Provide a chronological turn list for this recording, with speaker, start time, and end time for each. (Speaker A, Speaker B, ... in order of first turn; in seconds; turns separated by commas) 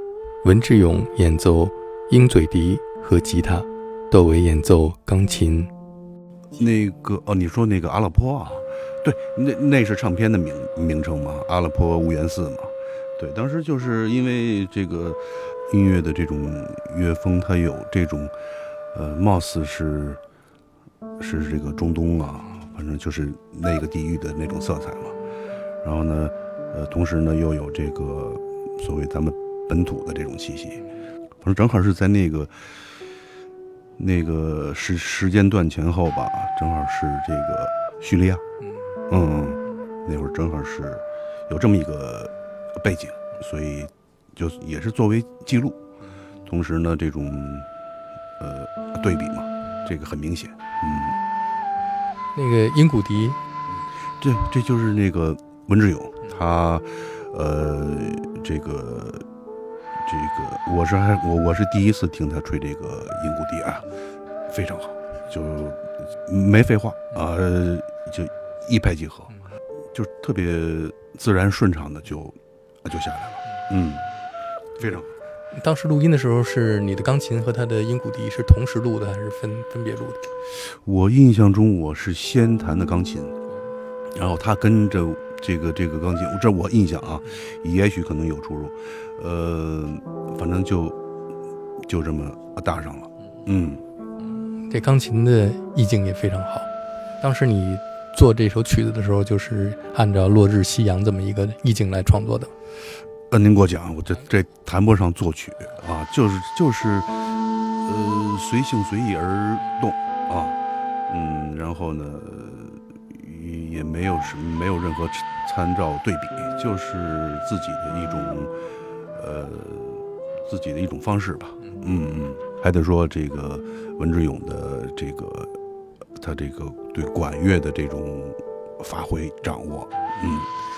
Speaker A: 0.4-5.7, Speaker B: 6.5-18.4, Speaker B: 18.9-20.2, Speaker B: 21.2-25.2, Speaker B: 25.8-32.7, Speaker B: 34.0-38.4, Speaker B: 39.1-45.8, Speaker B: 46.4-47.7, Speaker B: 48.4-51.2, Speaker A: 52.4-53.4, Speaker B: 54.2-59.3, Speaker B: 60.0-63.9, Speaker B: 64.5-69.4, Speaker B: 69.9-74.1, Speaker B: 74.8-75.1, Speaker A: 75.5-80.2, Speaker B: 80.5-83.4, Speaker B: 84.1-91.0, Speaker B: 91.8-93.8, Speaker A: 94.7-96.7, Speaker A: 97.2-102.5, Speaker B: 103.3-118.6, Speaker B: 119.1-125.6, Speaker B: 126.2-130.5